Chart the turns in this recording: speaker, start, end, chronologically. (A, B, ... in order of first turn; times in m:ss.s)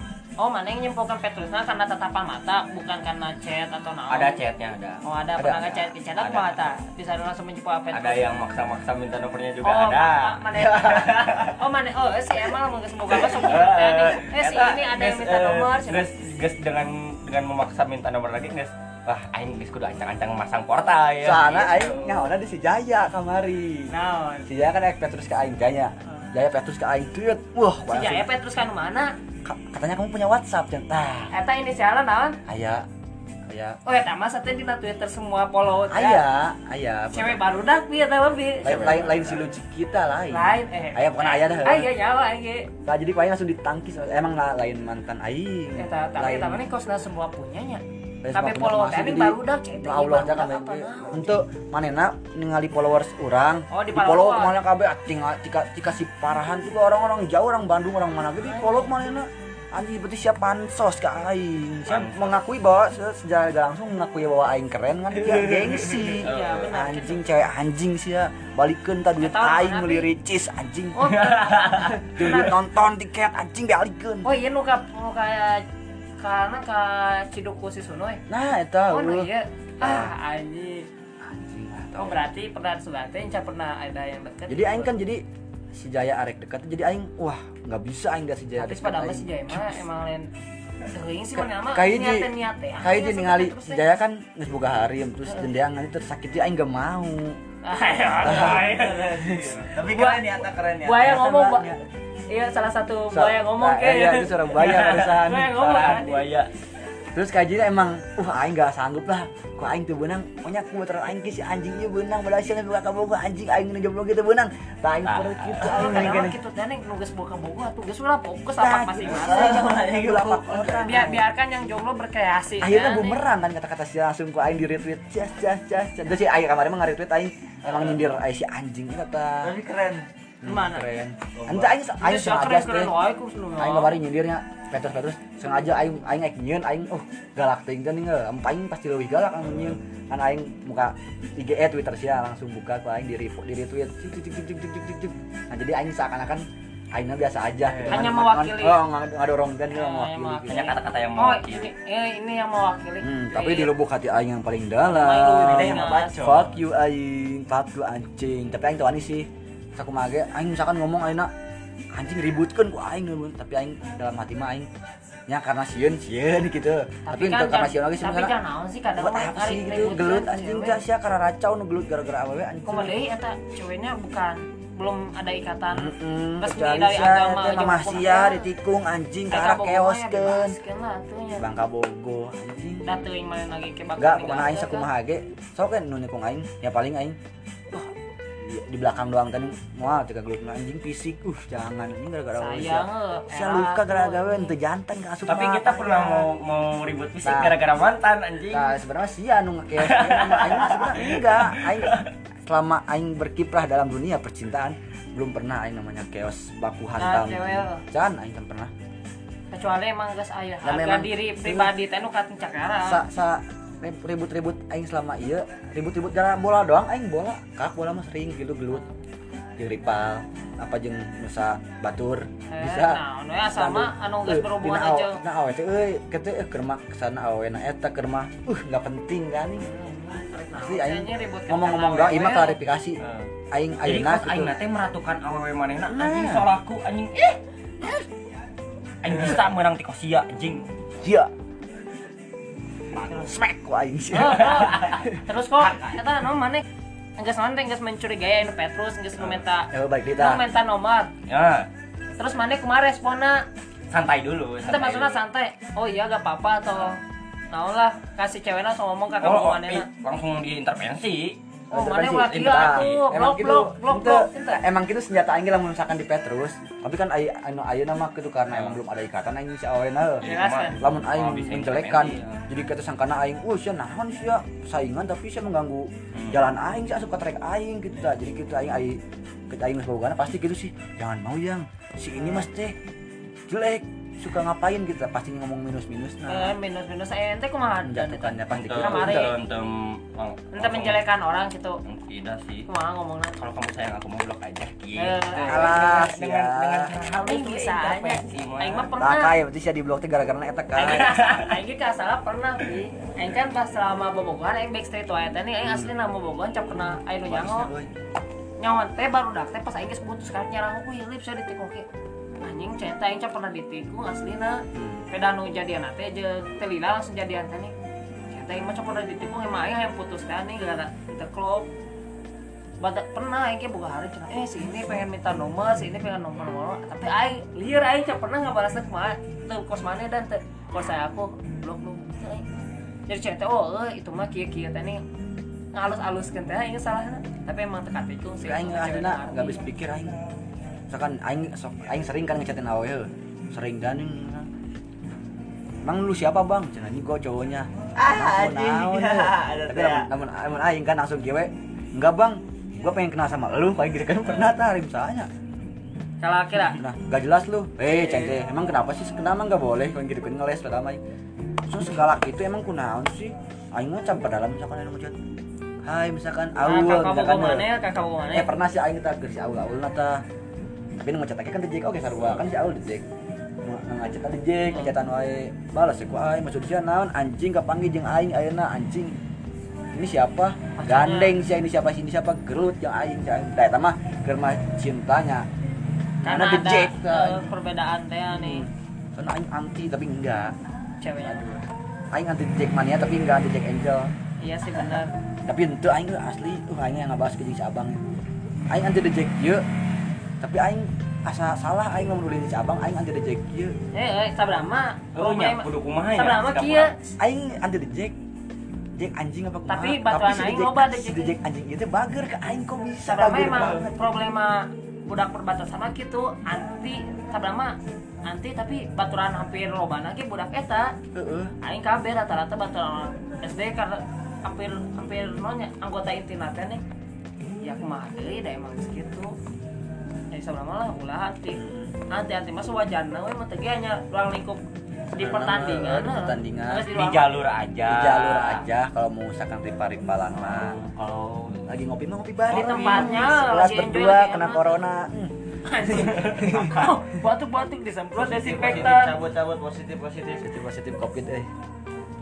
0:00.4-0:04.4 A
0:04.1-0:05.0 B
0:05.0-0:08.2 A
0:05.4-0:05.9 C
0:06.2-0:06.7 B
0:07.9-0:11.5 B
0:09.6-0:16.1 A
0:13.1-0:21.6 B
0:21.2-0:23.9 C
0:21.4-0:22.2 A
0:23.9-0:24.5 A
0:24.4-0:28.3 C
0:27.9-0:29.1 A
0:29.4-0:31.3 C
0:31.3-0:32.4 A
0:32.5-0:32.8 C
0:33.5-0:33.8 C
0:33.8-0:36.2 A
0:35.9-0:37.4 C
0:37.1-0:39.2 A
0:38.6-0:41.9 C
0:38.6-0:39.4 B
0:40.3-0:42.7 A
0:42.8-0:46.6 C
0:45.8-0:51.4 A
0:48.2-1:11.1 C
0:53.7-0:54.6 A
0:58.4-0:58.9 A
1:01.8-1:02.3 B
1:06.2-1:06.7 B
1:06.2-1:07.2 A
1:09.2-1:10.1 A
1:10.9-1:12.5 A
1:11.1-1:12.0 B
1:12.1-1:14.3 C
1:14.2-1:15.6 A
1:16.2-1:18.2 A
1:18.3-1:19.3 C
1:18.9-1:20.9 A
1:19.8-1:20.1 C
1:21.2-1:22.2 C
1:22.0-1:24.9 A
1:24.5-1:29.8 C
1:28.6-1:30.3 A
1:30.9-1:33.8 A
1:31.3-1:37.4 C
1:37.6-1:39.1 A
1:38.2-1:39.6 C
1:38.2-1:41.6 D
1:39.8-1:41.8 A
1:41.2-1:41.7 C
1:42.3-1:46.2 A
1:43.1-1:45.8 C
1:44.6-1:46.5 B
1:47.1-1:56.4 C
1:55.0-1:55.9 B
1:55.6-1:59.9 A
1:58.6-2:01.2 C
1:59.0-2:01.1 D
2:00.8-2:03.2 A
2:02.6-2:09.5 C
2:07.7-2:07.9 D
2:09.4-2:10.1 D
2:10.4-2:12.9 C
2:10.4-2:10.9 A
2:11.3-2:11.7 D
2:12.0-2:13.9 A
2:13.6-2:30.6 C
2:27.9-2:28.8 A
2:29.7-2:33.7 A
2:30.5-2:31.7 B
2:33.0-2:41.3 C
2:34.8-2:36.2 A
2:35.6-2:36.4 D
2:35.8-2:36.1 B
2:41.9-2:44.7 C
2:45.3-2:48.4 C
2:47.0-2:50.8 A
2:49.0-2:53.0 C
2:52.7-2:58.5 A
2:55.7-3:00.6 C
2:59.3-3:01.4 A
3:01.4-3:03.0 C
3:02.8-3:04.9 A
3:04.0-3:07.2 C
3:07.7-3:15.8 C
3:12.4-3:14.5 A
3:15.3-3:18.7 B
3:15.8-3:16.3 A
3:17.2-3:17.6 C
3:18.5-3:28.7 C
3:19.8-3:22.1 B
3:27.0-3:27.8 A
3:29.5-3:33.0 A
3:30.6-3:31.7 C
3:32.8-3:38.8 C
3:39.6-3:49.7 C
3:42.5-3:45.2 A
3:49.6-3:52.6 A
3:50.5-3:53.0 C
3:53.0-3:53.3 B
3:53.5-3:54.5 C
3:53.8-3:57.4 B
3:55.9-3:56.5 C
3:59.0-4:00.6 B
4:01.0-4:01.3 C
4:03.0-4:05.2 C
4:04.1-4:06.6 A
4:07.2-4:11.1 A
4:09.7-4:10.4 C
4:11.3-4:11.7 B
4:12.2-4:13.4 A
4:13.9-4:15.2 B
4:14.6-4:17.0 A
4:17.5-4:19.9 A
4:19.2-4:21.4 B
4:21.7-4:24.6 A
4:21.7-4:42.8 C
4:22.2-4:23.0 B
4:28.5-4:28.8 B
4:30.2-4:32.4 B
4:30.2-4:30.8 A
4:36.1-4:36.4 B
4:43.5-4:46.6 C
4:46.3-4:49.3 A
4:47.8-4:49.3 C
4:48.5-4:51.0 B
4:50.5-4:51.8 A
4:51.8-4:52.7 B
4:52.7-4:53.4 A
4:53.4-4:58.9 B
4:55.0-4:56.2 A
4:55.4-4:56.9 C
4:57.1-4:59.3 A
4:59.0-5:01.1 C
5:00.7-5:07.7 A
5:01.0-5:01.5 B
5:05.6-5:05.9 C
5:07.3-5:07.9 C
5:08.6-5:11.9 A
5:12.4-5:17.7 A
5:14.7-5:15.0 C
5:18.3-5:21.7 A
5:22.8-5:32.5 A
5:33.1-5:35.0 A
5:35.7-5:39.6 A
5:38.4-5:40.1 C
5:40.9-5:44.5 C
5:45.8-5:55.3 C
5:48.0-5:50.1 D
5:56.2-5:56.8 A
5:56.5-6:01.0 C
6:01.7-6:05.2 C
6:05.8-6:07.7 C
6:06.6-6:08.5 A
6:08.3-6:10.2 C
6:11.0-6:13.0 C
6:13.6-6:19.1 C
6:14.7-6:14.9 A
6:19.9-6:25.5 C
6:20.8-6:21.4 A
6:26.2-6:27.5 C
6:26.2-6:28.7 A
6:28.3-6:30.5 C
6:31.0-6:31.6 A
6:31.2-6:31.6 C
6:32.1-6:34.1 C
6:34.4-6:35.1 A
6:35.4-6:38.0 C
6:38.7-6:39.6 C
6:40.4-6:43.8 C
6:43.9-6:46.9 A
6:45.1-6:46.9 B
6:47.2-6:48.2 C
6:49.0-6:53.9 C
6:49.7-6:51.3 A
6:53.0-7:01.0 A
7:01.1-7:01.5 C
7:01.6-7:06.8 A
7:07.6-7:09.3 A
7:10.3-7:14.6 A
7:11.5-7:12.0 C
7:15.1-7:17.4 A
7:15.1-7:16.9 C
7:16.9-7:18.6 B
7:17.8-7:20.8 C
7:20.5-7:21.6 B
7:20.8-7:21.6 D
7:21.7-7:26.7 C
7:22.5-7:24.8 A
7:22.5-7:23.2 D
7:25.6-7:29.1 A
7:26.4-7:26.9 D
7:28.1-7:30.5 D
7:30.4-7:31.5 C